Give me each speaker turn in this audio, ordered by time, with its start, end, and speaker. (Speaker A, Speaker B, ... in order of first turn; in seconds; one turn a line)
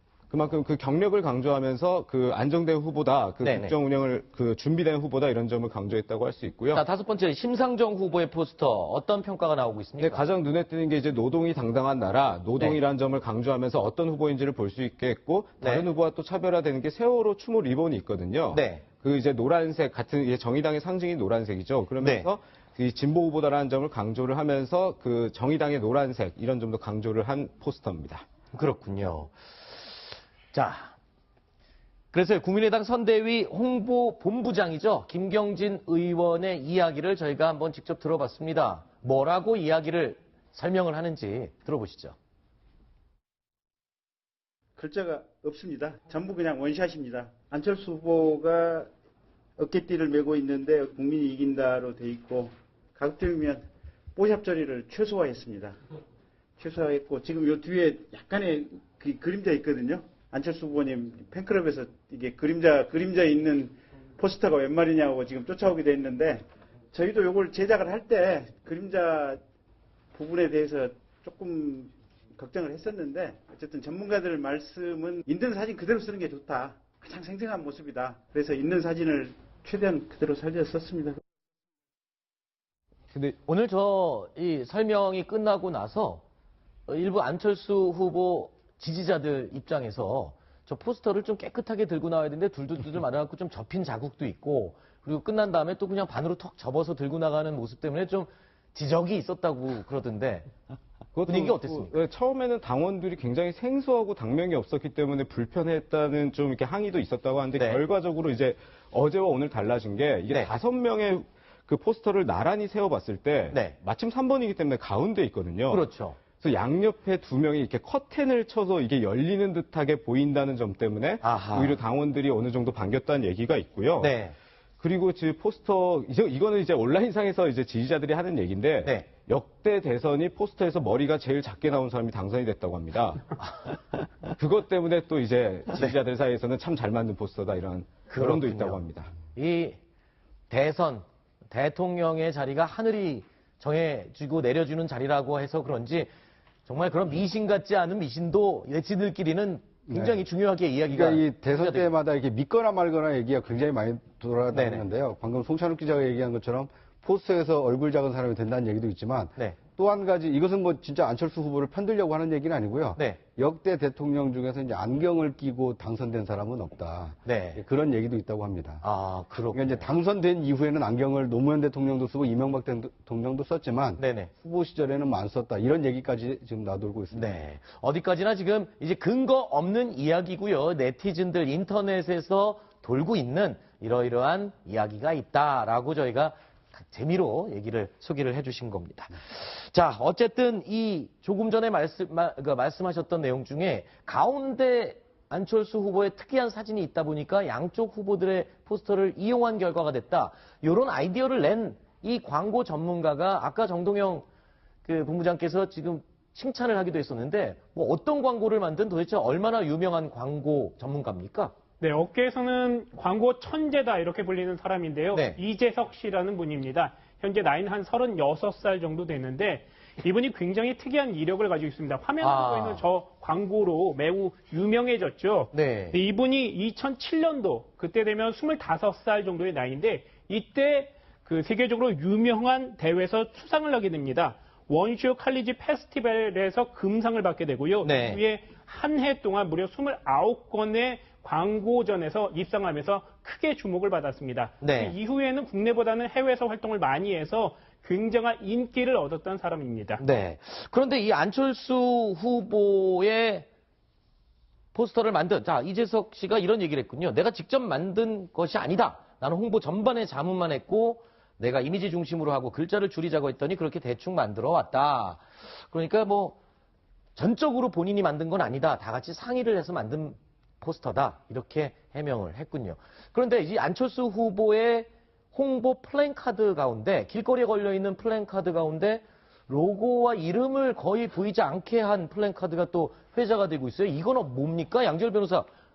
Speaker A: 0.3-6.8
Speaker B: 3.4-3.8
Speaker B: 6.7-10.3
Speaker A: 10.0-28.2
Speaker B: 15.6-15.9
Speaker B: 18.5-18.8
Speaker B: 22.0-22.3
Speaker B: 28.5-29.3
Speaker B: 30.5-30.9
Speaker B: 32.1-42.2
Speaker C: 44.8-48.9
Speaker C: 49.6-53.6
Speaker C: 54.2-55.8
Speaker C: 56.6-69.4
Speaker C: 70.1-81.2
Speaker B: 83.5-86.2
Speaker B: 86.9-100.5
Speaker A: 101.2-115.8
Speaker B: 101.3-101.9
Speaker B: 107.6-107.8
Speaker B: 113.5-113.8
Speaker B: 115.7-116.2
Speaker A: 116.4-124.1
Speaker B: 121.2-121.8
Speaker B: 124.0-124.3
Speaker A: 124.8-133.4
Speaker A: 134.3-139.1
Speaker B: 138.1-139.8
Speaker B: 140.5-146.1
Speaker B: 146.7-151.9
Speaker D: 149.9-150.2
Speaker D: 150.9-168.8
Speaker B: 154.5-154.8
Speaker B: 167.2-167.6
Speaker B: 168.8-169.9
Speaker D: 169.5-177.3
Speaker B: 174.0-174.3
Speaker B: 177.1-204.3
Speaker B: 204.8-211.5
Speaker E: 211.8-250.0
Speaker B: 215.1-215.4
Speaker B: 222.2-222.8
Speaker B: 225.5-226.0
Speaker B: 237.8-238.2
Speaker B: 244.6-244.9
Speaker B: 250.0-253.5
Speaker B: 254.7-266.4
Speaker B: 267.1-285.5